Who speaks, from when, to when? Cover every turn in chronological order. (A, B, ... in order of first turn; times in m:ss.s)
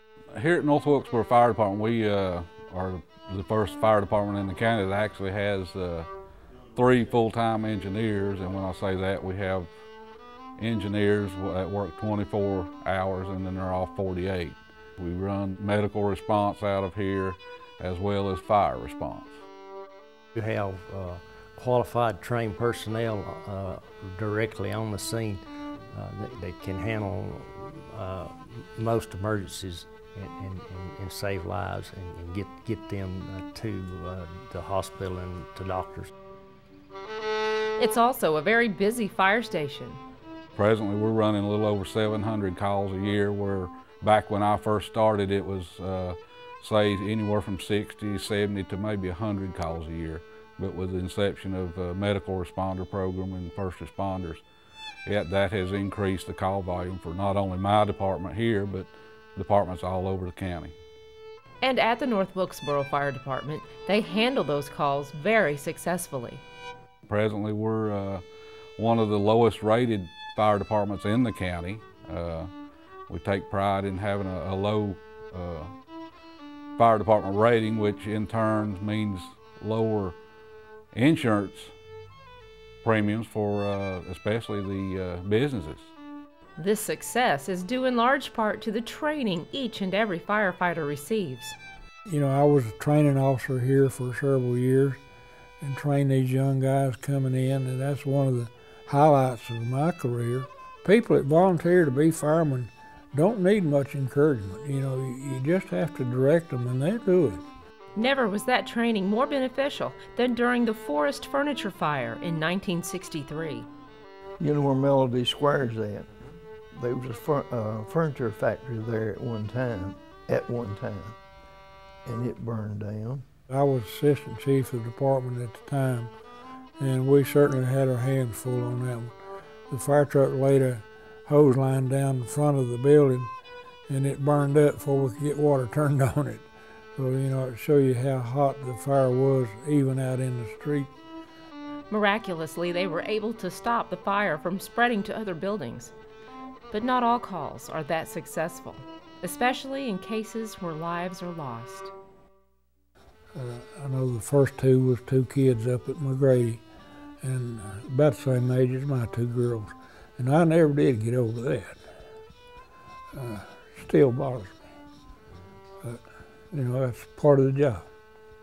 0:00.3-0:06.1 A
0:06.7-0:09.7 A
0:10.6-0:19.3 A
0:20.3-0:36.1 B
0:37.8-0:40.0 C
0:40.6-0:54.4 A
0:55.0-1:00.7 A
1:01.6-1:06.4 C
1:07.1-1:08.2 A
1:08.8-1:12.5 A
1:13.1-1:15.7 A
1:16.8-1:20.2 A
1:20.9-1:21.7 A
1:22.8-1:25.9 A
1:26.6-1:31.6 C
1:32.1-1:35.0 D
1:35.6-1:47.4 D
1:48.0-1:53.7 C
1:54.4-1:56.1 E
1:56.7-2:01.1 E
2:02.0-2:03.2 E
2:03.5-2:06.1 D
2:06.8-2:09.1 D
2:09.7-2:13.3 D
2:13.9-2:20.9 D
2:21.9-2:25.9 C
2:26.7-2:31.9 C
2:33.3-2:36.6 D
2:37.2-2:41.8 D
2:43.1-2:44.6 D
2:46.5-2:47.8 D